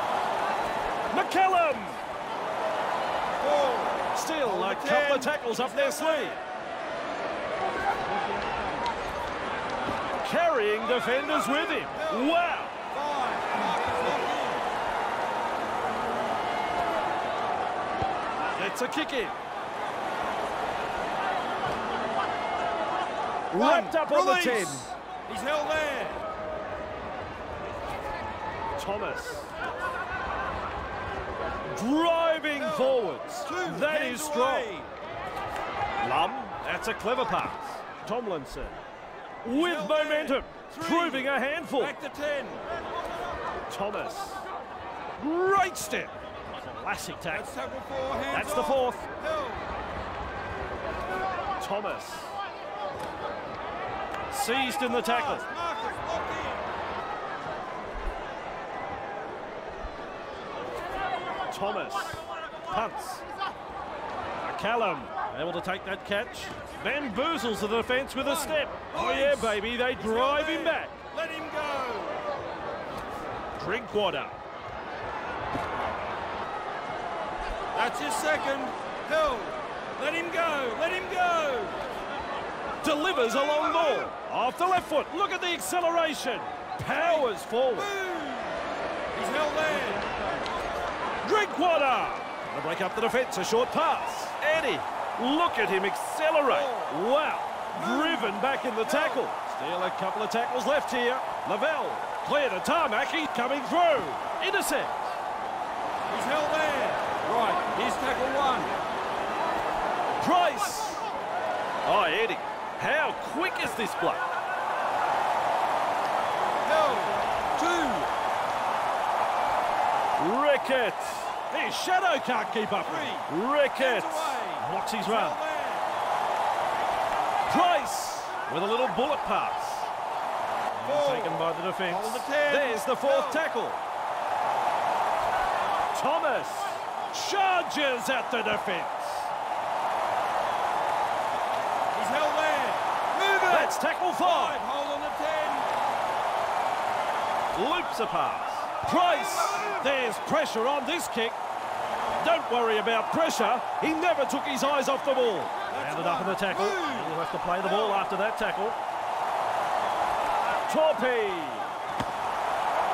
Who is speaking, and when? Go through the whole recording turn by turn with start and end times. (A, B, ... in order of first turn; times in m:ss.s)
0:01.1-0:02.0 A
0:03.4-0:06.4 B
0:04.1-0:06.4 A
0:08.3-0:08.6 B
0:10.2-0:12.8 A
0:11.9-0:12.3 B
0:12.9-0:14.7 B
0:18.5-0:19.4 A
0:23.5-0:24.9 A
0:23.5-0:26.2 B
0:28.8-0:29.6 A
0:31.7-0:34.7 A
0:32.6-0:34.9 B
0:36.0-0:38.8 A
0:39.4-0:41.9 A
0:39.5-0:42.6 B
0:43.7-0:44.5 A
0:45.2-0:47.5 A
0:47.3-0:49.7 B
0:48.3-0:49.0 A
0:51.6-0:52.4 A
0:54.3-0:55.4 A
0:54.9-0:56.7 B
1:01.5-1:03.3 A
1:04.4-1:11.0 A
1:08.2-1:12.4 B
1:13.5-1:14.4 A
1:17.7-1:21.8 B
1:22.8-1:27.9 A
1:26.8-1:28.6 B
1:29.1-1:30.3 B
1:31.2-1:45.2 A
1:36.5-1:37.0 B
1:37.7-1:39.2 B
1:46.1-1:48.7 B
1:50.2-1:51.0 A
1:51.8-1:54.3 A
1:56.6-1:58.1 B
2:00.2-2:05.4 A
2:02.8-2:05.9 B
2:07.5-2:09.9 A
2:10.8-2:13.8 A
2:10.8-2:13.4 B
2:15.9-2:19.3 A
2:21.9-2:25.7 B
2:23.4-2:24.6 A
2:27.5-2:31.4 A
2:28.9-2:29.9 B
2:32.2-2:38.8 A
2:35.7-2:38.0 B
2:40.7-2:41.7 A